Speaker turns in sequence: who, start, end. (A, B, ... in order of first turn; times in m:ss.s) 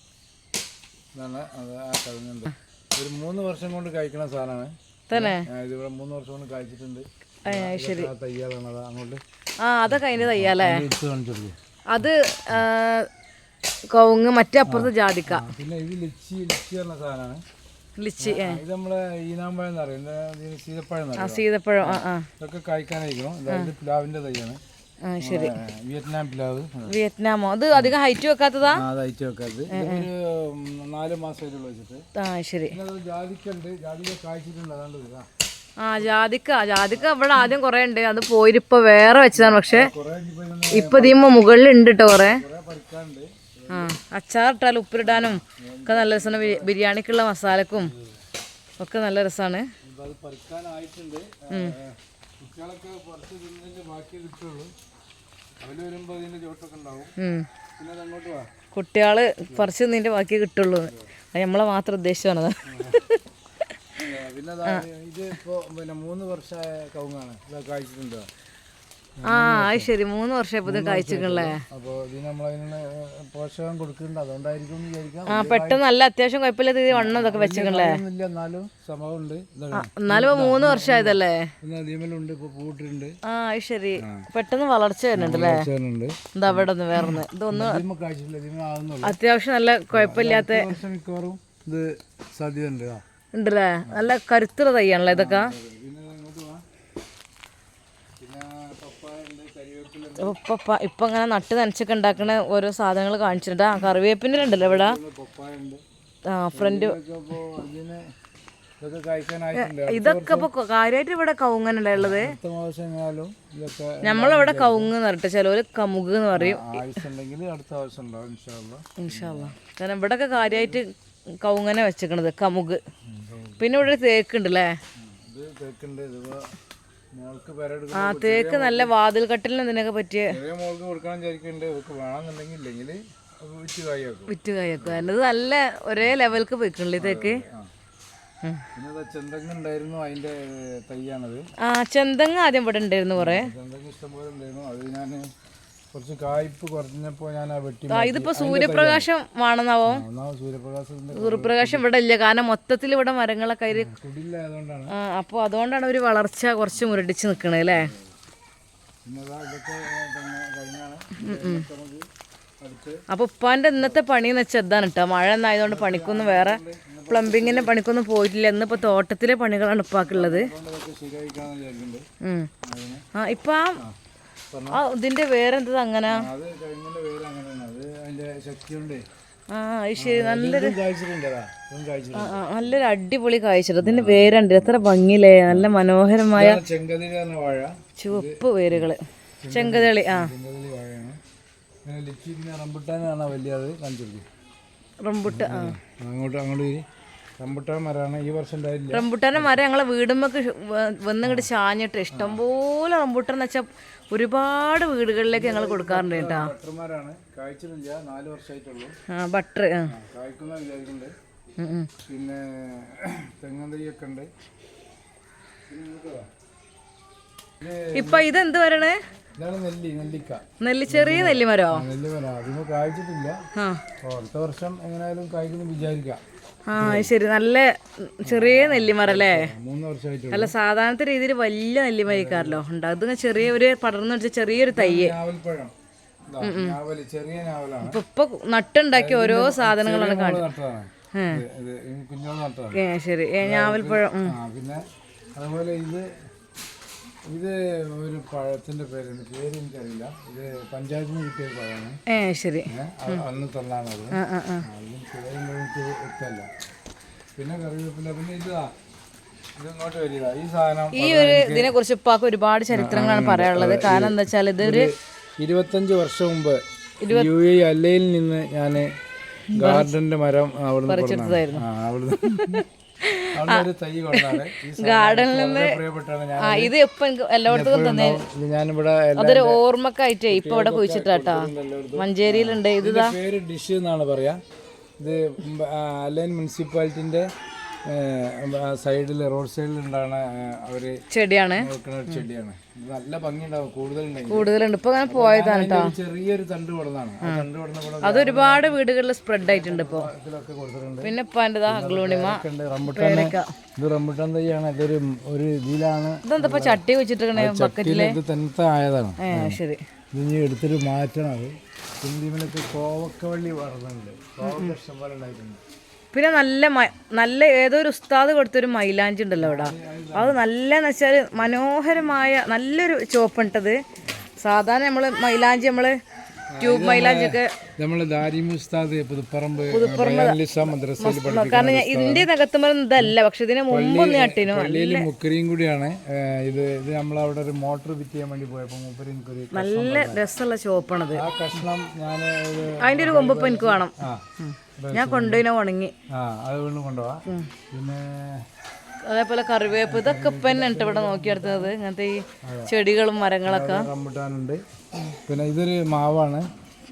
0:01.1-0:09.2 A
0:05.1-0:05.4 B
0:07.4-0:08.1 B
0:09.6-0:10.8 B
0:09.9-0:11.5 A
0:11.9-0:13.1 B
0:13.9-0:15.5 B
0:14.6-0:17.4 A
0:18.0-0:18.6 B
0:18.2-0:24.6 A
0:21.2-0:22.3 B
0:25.0-0:25.5 B
0:25.2-0:27.0 A
0:26.9-0:28.8 B
0:28.6-0:32.0 A
0:29.7-0:30.1 B
0:32.2-0:32.8 B
0:32.7-0:35.3 A
0:35.8-0:39.9 B
0:39.3-0:41.2 A
0:40.7-0:42.4 B
0:42.1-0:44.0 A
0:43.7-0:47.9 B
0:45.0-0:46.7 A
0:47.8-0:48.2 A
0:48.8-0:49.7 B
0:49.8-0:54.7 A
0:55.6-0:57.1 A
0:57.2-0:57.4 B
0:57.8-0:58.5 A
0:58.7-1:03.2 B
1:02.7-1:03.0 A
1:04.0-1:08.3 A
1:09.2-1:09.9 A
1:09.3-1:11.6 B
1:10.6-1:15.8 A
1:15.3-1:18.0 B
1:16.9-1:23.2 A
1:19.7-1:21.5 B
1:23.2-1:25.7 B
1:24.0-1:24.3 A
1:25.1-1:29.2 A
1:26.3-1:27.8 B
1:29.0-1:30.7 B
1:29.9-1:33.0 A
1:33.3-1:35.5 B
1:35.1-1:36.6 A
1:38.2-1:40.4 A
1:40.2-1:45.0 B
1:44.3-1:45.8 A
1:46.3-1:47.0 B
1:46.5-1:48.0 A
1:48.8-1:50.5 A
1:49.6-1:52.4 B
1:51.9-1:54.9 A
1:54.0-1:56.8 B
1:56.3-1:59.5 A
1:59.0-2:02.8 B
2:00.4-2:00.8 A
2:03.1-2:03.9 A
2:03.6-2:04.7 B
2:05.0-2:06.5 A
2:07.1-2:08.9 A
2:07.9-2:10.3 B
2:10.3-2:15.1 A
2:14.3-2:17.4 B
2:17.0-2:17.7 A
2:18.7-2:21.4 A
2:21.6-2:23.5 B
2:23.2-2:25.3 A
2:25.9-2:29.1 A
2:27.9-2:30.0 B
2:29.9-2:31.8 A
2:31.1-2:33.9 B
2:33.7-2:34.9 A
2:34.9-2:37.9 B
2:37.7-2:38.1 A
2:39.0-2:42.0 A
2:41.2-2:41.6 B
2:42.6-2:43.0 A
2:43.1-2:50.5 B
2:45.6-2:47.8 A
2:50.0-2:52.0 A
2:52.2-2:52.5 B
2:52.6-2:53.0 A
2:53.1-2:53.8 B
2:54.5-2:54.8 A
2:54.7-2:56.2 B
2:56.1-2:59.0 A
2:59.5-3:00.7 B
3:00.0-3:02.8 A
3:02.1-3:06.6 B
3:03.8-3:04.8 A
3:06.3-3:11.2 A
3:08.0-3:09.0 B
3:09.5-3:10.3 B
3:11.8-3:14.2 A
3:15.0-3:15.7 B
3:15.3-3:16.8 A
3:17.4-3:19.5 A
3:18.9-3:26.5 B
3:21.2-3:21.5 A
3:22.1-3:22.4 A
3:25.3-3:28.9 A
3:29.1-3:29.9 B
3:29.9-3:31.1 A
3:31.6-3:31.9 B
3:32.0-3:34.3 A
3:35.7-3:36.3 A
3:37.6-3:38.3 A
3:37.9-3:39.0 B
3:39.4-3:43.4 A
3:40.6-3:41.8 B
3:43.5-3:43.8 B
3:44.0-3:46.2 A
3:46.7-3:49.5 B
3:46.7-3:47.1 A
3:48.2-3:50.5 A
3:50.3-3:55.2 B
3:52.1-3:52.6 A
3:54.7-3:55.7 A
3:56.3-3:58.0 A
3:56.4-3:56.8 B
3:57.8-4:00.4 B
3:58.9-4:02.8 A
4:01.1-4:01.4 B
4:02.7-4:04.3 B
4:03.4-4:04.8 A
4:05.4-4:06.1 A
4:07.3-4:12.0 A
4:12.1-4:13.2 B
4:12.7-4:16.5 A
4:14.1-4:14.6 B
4:17.4-4:18.7 A
4:19.6-4:21.7 A
4:20.9-4:24.9 B
4:22.7-4:28.9 A
4:27.0-4:27.3 B
4:29.5-4:29.9 B
4:29.5-4:32.6 A
4:30.9-4:31.6 B
4:32.5-4:35.8 B
4:33.3-4:36.7 A
4:36.4-4:38.2 B
4:37.5-4:39.6 A
4:39.2-4:43.2 B
4:40.3-4:44.4 A
4:45.0-4:47.3 A
4:47.8-4:51.0 A
4:51.1-4:52.2 B
4:51.6-4:54.5 A
4:54.3-4:55.9 B
4:55.0-4:58.8 A
4:58.0-5:00.1 B
4:59.4-5:01.1 A
5:01.0-5:03.5 B
5:01.7-5:06.8 A
5:06.2-5:08.2 B
5:07.3-5:09.6 A
5:09.2-5:09.8 B
5:10.1-5:15.6 A
5:14.4-5:14.7 B
5:16.1-5:23.8 B
5:19.4-5:20.4 A
5:24.4-5:26.0 B
5:26.5-5:32.3 A
5:26.6-5:27.6 B
5:29.7-5:30.4 B
5:31.0-5:35.1 B
5:33.7-5:40.2 A
5:39.5-5:41.2 B
5:41.1-5:44.2 A
5:42.8-5:45.9 B
5:44.8-5:45.4 A
5:46.1-5:48.5 A
5:49.0-5:53.9 B
5:49.7-5:51.7 A
5:52.4-5:52.7 A
5:53.4-5:54.6 A
5:55.2-5:56.5 A